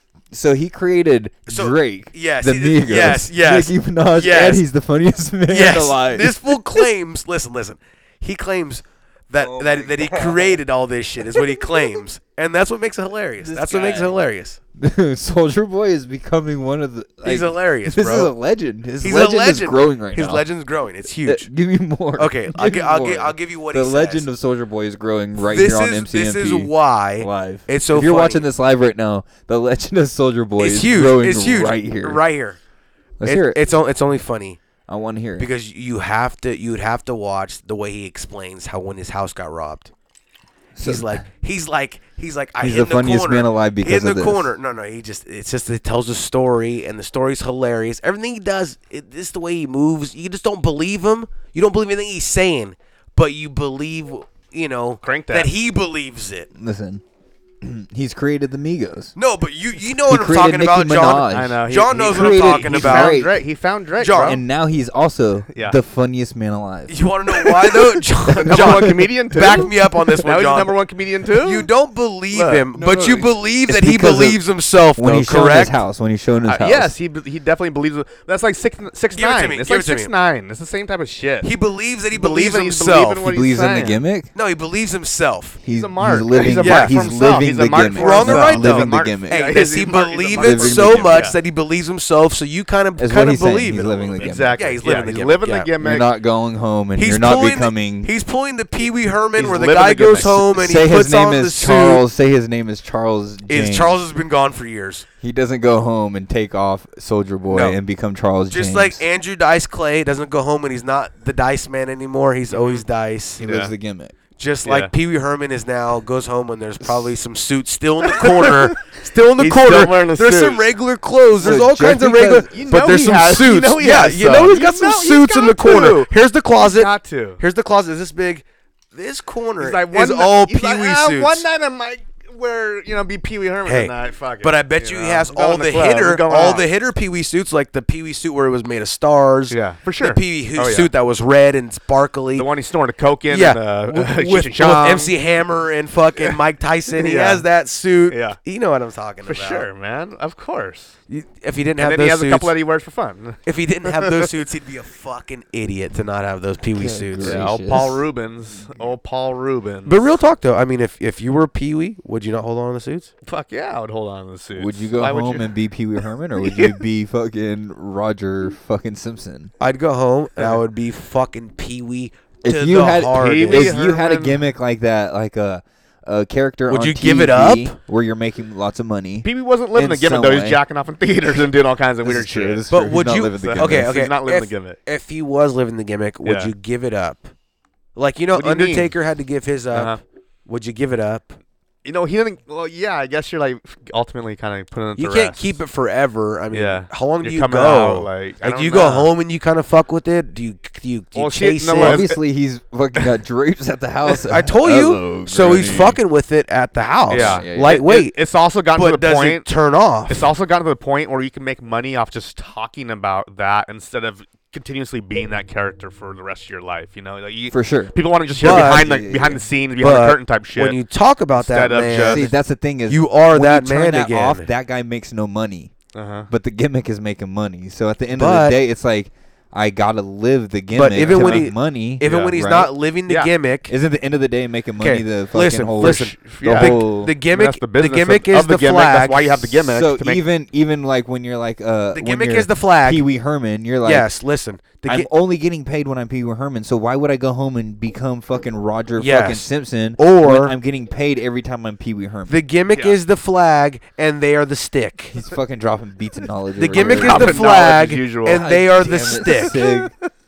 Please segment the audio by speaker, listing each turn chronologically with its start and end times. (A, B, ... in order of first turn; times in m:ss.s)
0:00.3-0:06.8 A
0:01.5-0:04.6 B
0:05.5-0:14.6 B
0:09.4-0:10.6 A
0:11.3-0:11.7 A
0:13.4-0:14.2 A
0:14.8-0:20.5 A
0:17.2-0:18.3 B
0:19.0-0:21.5 B
0:21.2-0:32.2 A
0:22.2-0:24.2 B
0:25.4-0:28.4 B
0:30.6-0:32.6 B
0:33.2-0:33.6 A
0:33.2-0:34.6 B
0:34.9-0:35.5 A
0:35.4-0:39.9 B
0:40.8-0:41.2 A
0:40.8-0:56.5 B
0:42.6-0:44.5 A
0:55.0-0:55.5 C
0:56.6-0:57.0 A
0:57.6-0:59.1 A
0:59.2-1:03.3 B
1:00.0-1:03.4 A
1:01.3-1:04.4 C
1:04.0-1:04.4 B
1:04.2-1:07.1 A
1:06.9-1:10.8 B
1:08.4-1:09.6 A
1:08.4-1:11.7 C
1:11.4-1:15.8 B
1:12.3-1:13.3 C
1:13.7-1:14.4 A
1:15.0-1:17.0 A
1:16.5-1:21.5 C
1:19.1-1:20.1 B
1:21.4-1:23.3 B
1:22.1-1:24.0 C
1:23.2-1:24.3 A
1:24.4-1:25.6 B
1:25.6-1:29.7 A
1:25.7-1:31.4 C
1:26.4-1:27.0 B
1:27.9-1:35.7 B
1:30.4-1:31.3 A
1:33.0-1:34.8 A
1:34.0-1:36.1 C
1:35.8-1:38.1 A
1:37.0-1:42.0 B
1:39.4-1:40.5 C
1:40.5-1:44.0 A
1:43.5-1:45.1 B
1:45.2-1:49.0 A
1:47.5-1:47.8 B
1:48.5-1:53.4 B
1:52.5-1:52.8 C
1:53.4-1:54.2 A
1:53.4-1:53.7 C
1:54.4-2:11.4 B
1:54.6-1:54.9 C
1:58.0-1:58.7 C
1:59.4-2:00.7 C
2:01.4-2:02.7 A
2:02.5-2:07.4 C
2:09.6-2:16.7 C
2:13.6-2:22.5 B
2:19.5-2:20.9 C
2:22.4-2:25.1 C
2:23.3-2:29.7 B
2:27.0-2:27.4 C
2:28.1-2:28.4 C
2:29.2-2:31.0 C
2:31.1-2:32.5 B
2:31.8-2:34.3 C
2:33.5-2:38.0 B
2:36.7-2:38.0 A
2:37.2-2:40.1 C
2:39.9-2:43.1 B
2:43.2-2:45.5 C
2:44.6-2:49.5 A
2:46.4-2:46.8 C
2:49.6-2:53.8 B
2:52.4-3:00.6 A
2:53.1-2:54.4 C
2:56.7-2:57.7 B
2:59.2-3:04.8 C
3:02.0-3:04.0 A
3:02.7-3:07.3 B
3:06.2-3:06.5 C
3:08.0-3:11.4 B
3:08.3-3:08.9 C
3:09.7-3:10.0 C
3:11.8-3:15.6 C
3:15.0-3:22.0 B
3:16.5-3:19.1 C
3:21.2-3:22.2 C
3:21.8-3:26.0 A
3:24.1-3:28.2 B
3:27.1-3:29.5 C
3:27.1-3:27.8 A
3:28.8-3:30.3 B
3:30.1-3:40.8 C
3:37.5-3:39.4 A
3:38.4-3:39.1 B
3:39.8-3:42.4 B
3:41.4-3:42.3 C
3:42.0-3:45.7 A
3:42.9-3:44.5 B
3:45.9-3:46.3 C
3:46.3-3:52.7 A
3:48.2-3:48.6 B
3:50.7-3:53.7 B
3:51.0-3:51.5 C
3:52.0-3:52.4 C
3:53.1-3:53.3 C
3:53.7-3:57.2 A
3:54.8-3:59.6 B
3:55.8-4:00.2 C
3:59.7-4:04.1 A
4:01.9-4:03.0 B
4:03.8-4:05.1 B
4:04.9-4:12.4 A
4:09.0-4:10.5 B
4:12.3-4:15.2 B
4:12.7-4:13.0 C
4:15.1-4:17.6 A
4:16.6-4:19.6 B
4:16.8-4:18.6 C
4:18.3-4:19.9 A
4:19.2-4:19.9 C